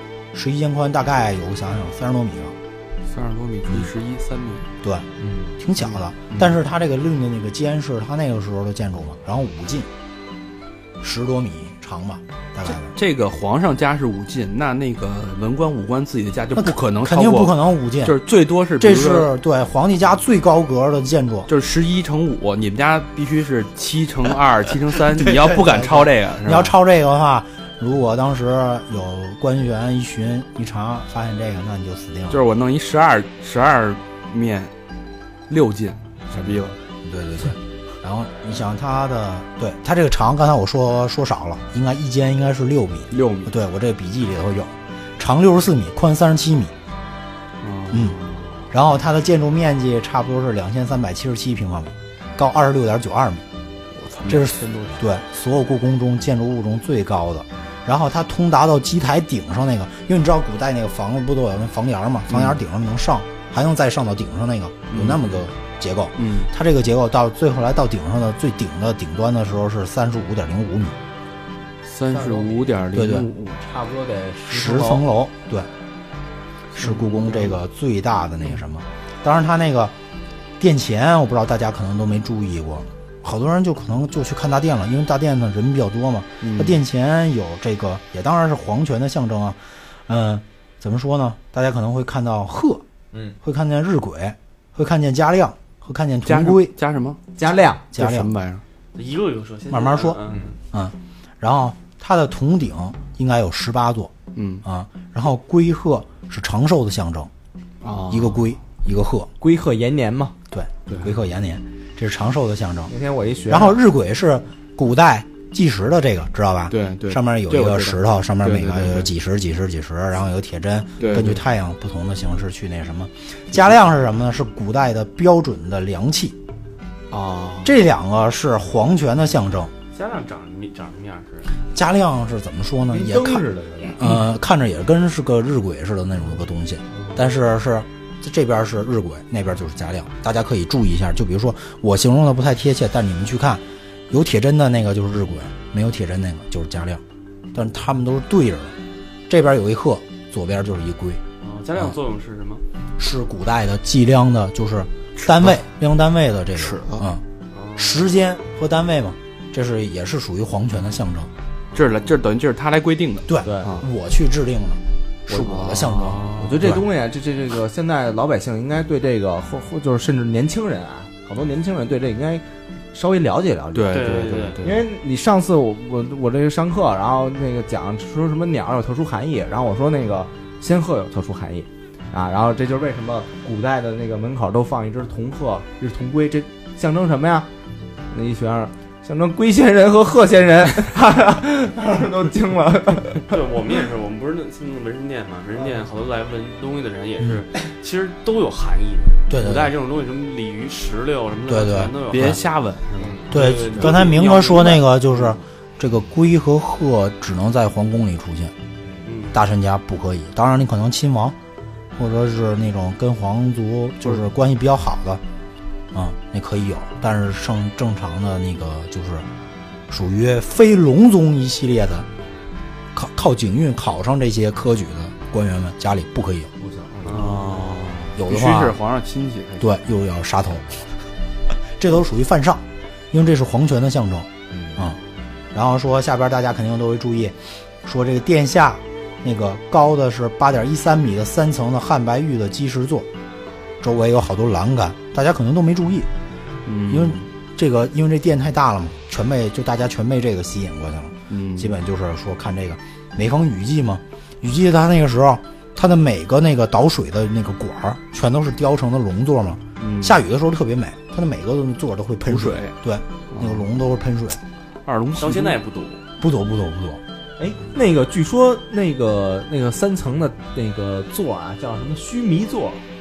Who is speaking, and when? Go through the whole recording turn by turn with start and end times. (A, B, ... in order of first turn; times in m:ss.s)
0:00.3-0:02.6 A
0:03.1-0:04.7 B
0:04.8-0:05.1 A
0:05.2-0:05.6 C
0:05.6-0:09.9 A
0:06.3-0:06.6 B
0:11.0-0:13.0 A
0:12.7-0:19.3 B
0:16.6-0:18.2 A
0:18.8-0:21.5 A
0:21.5-0:26.8 B
0:25.1-0:32.4 A
0:32.3-0:34.7 B
0:35.5-0:36.8 B
0:37.0-0:46.7 A
0:43.1-0:43.5 B
0:47.6-0:48.7 B
0:47.9-0:48.2 A
0:48.7-0:53.4 A
0:53.9-0:55.0 B
0:54.3-1:11.0 A
1:02.3-1:02.6 B
1:04.9-1:05.3 B
1:06.2-1:06.5 B
1:11.8-1:13.6 B
1:12.1-1:12.6 C
1:12.9-1:13.3 A
1:13.6-1:15.0 C
1:14.5-1:15.7 A
1:16.8-1:19.9 A
1:17.0-1:17.5 C
1:20.6-1:32.8 A
1:26.4-1:26.8 B
1:33.1-1:33.4 C
1:33.4-1:36.7 A
1:36.3-1:37.2 B
1:37.4-1:37.9 C
1:37.9-1:38.3 A
1:38.0-1:38.6 B
1:39.0-1:40.5 D
1:39.7-1:44.1 A
1:44.4-1:44.6 B
1:44.6-1:47.3 A
1:47.8-1:48.4 B
1:48.1-1:49.3 A
1:49.4-1:50.4 C
1:50.5-1:52.9 A
1:50.9-1:51.1 B
1:52.9-1:53.8 C
1:53.5-2:06.4 A
1:56.7-1:59.1 B
2:01.0-2:01.4 B
2:07.1-2:07.8 B
2:07.6-2:09.7 A
2:09.9-2:11.6 D
2:11.7-2:13.4 A
2:12.9-2:14.1 C
2:14.0-2:27.0 A
2:27.5-2:28.8 A
2:29.3-2:31.2 A
2:31.4-2:32.6 D
2:33.0-2:37.2 A
2:35.2-2:35.6 B
2:36.6-2:37.0 B
2:37.5-2:38.1 D
2:37.8-2:41.3 A
2:41.7-2:43.9 B
2:43.3-2:46.8 A
2:43.4-2:43.8 C
2:45.3-2:46.8 B
2:46.3-3:07.5 C
2:53.7-2:54.8 B
2:53.9-2:54.6 D
3:08.1-3:13.3 C
3:13.3-3:22.4 D
3:19.3-3:19.8 A
3:21.5-3:22.4 A
3:22.1-3:24.7 B
3:23.0-3:23.6 C
3:23.0-3:25.4 D
3:23.3-3:28.5 A
3:29.0-3:29.4 D
3:29.3-3:31.4 A
3:32.0-3:35.2 A
3:35.9-3:39.3 A
3:39.9-3:42.1 A
3:42.9-3:46.5 A
3:46.6-3:47.7 C
3:47.1-3:49.8 B
3:47.1-3:47.4 D
3:48.1-3:48.8 A
3:49.6-3:50.8 A
3:51.8-3:55.0 A
3:54.5-3:54.8 C
3:55.5-4:03.1 A
4:03.8-4:06.1 A
4:06.7-4:07.2 B
4:06.9-4:24.4 A
4:11.3-4:11.8 B
4:19.8-4:20.2 B
4:22.3-4:22.8 B
4:23.3-4:23.6 B
4:24.9-4:25.6 B
4:25.2-4:26.0 D
4:26.2-4:27.0 A
4:27.4-4:32.8 C